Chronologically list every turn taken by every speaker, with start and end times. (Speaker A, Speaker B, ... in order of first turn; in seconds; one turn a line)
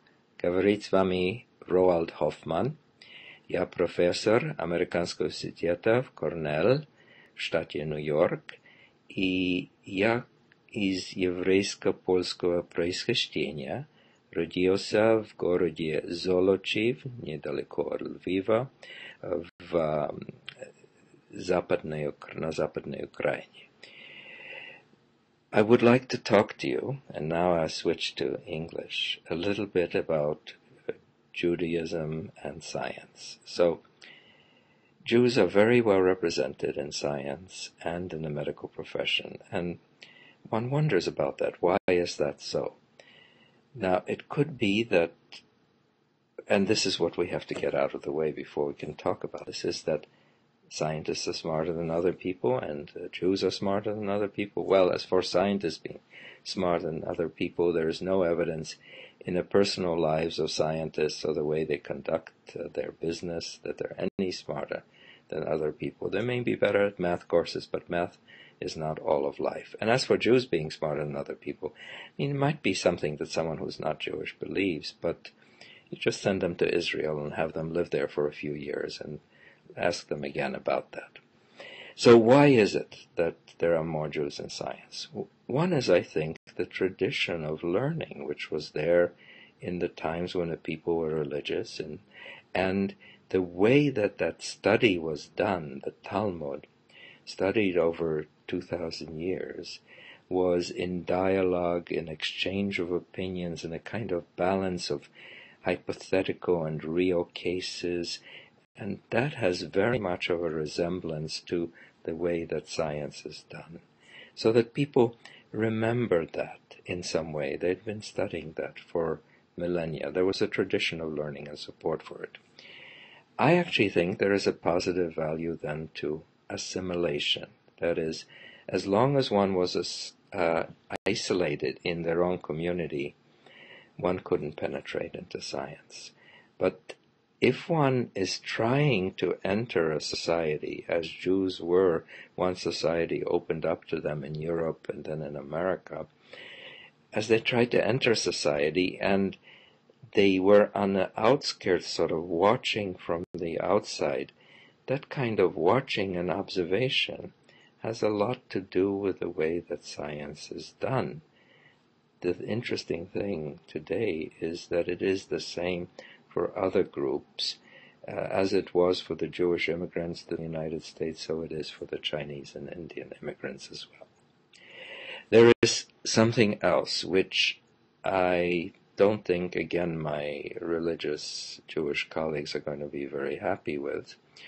Speaker A: 0.4-2.8
Speaker A: 3.5-6.8
Speaker A: 7.4-8.6
Speaker A: 9.1-18.7
Speaker A: 19.2-20.3
Speaker A: 21.3-23.7
Speaker A: 25.5-30.6
Speaker A: 31.3-33.8
Speaker A: 35.0-39.8
Speaker A: 40.5-42.8
Speaker A: 43.8-45.4
Speaker A: 46.5-50.1
Speaker A: 50.7-75.3
Speaker A: 75.9-79.2
Speaker A: 79.8-81.2
Speaker A: 82.0-92.0
Speaker A: 92.5-96.7
Speaker A: 97.3-105.1
Speaker A: 105.6-108.2
Speaker A: 108.8-113.8
Speaker A: 114.4-122.4
Speaker A: 123.4-133.2
Speaker A: 134.0-146.1
Speaker A: 147.1-149.4
Speaker A: 150.1-154.3
Speaker A: 154.9-161.2
Speaker A: 162.2-174.1
Speaker A: 175.3-184.2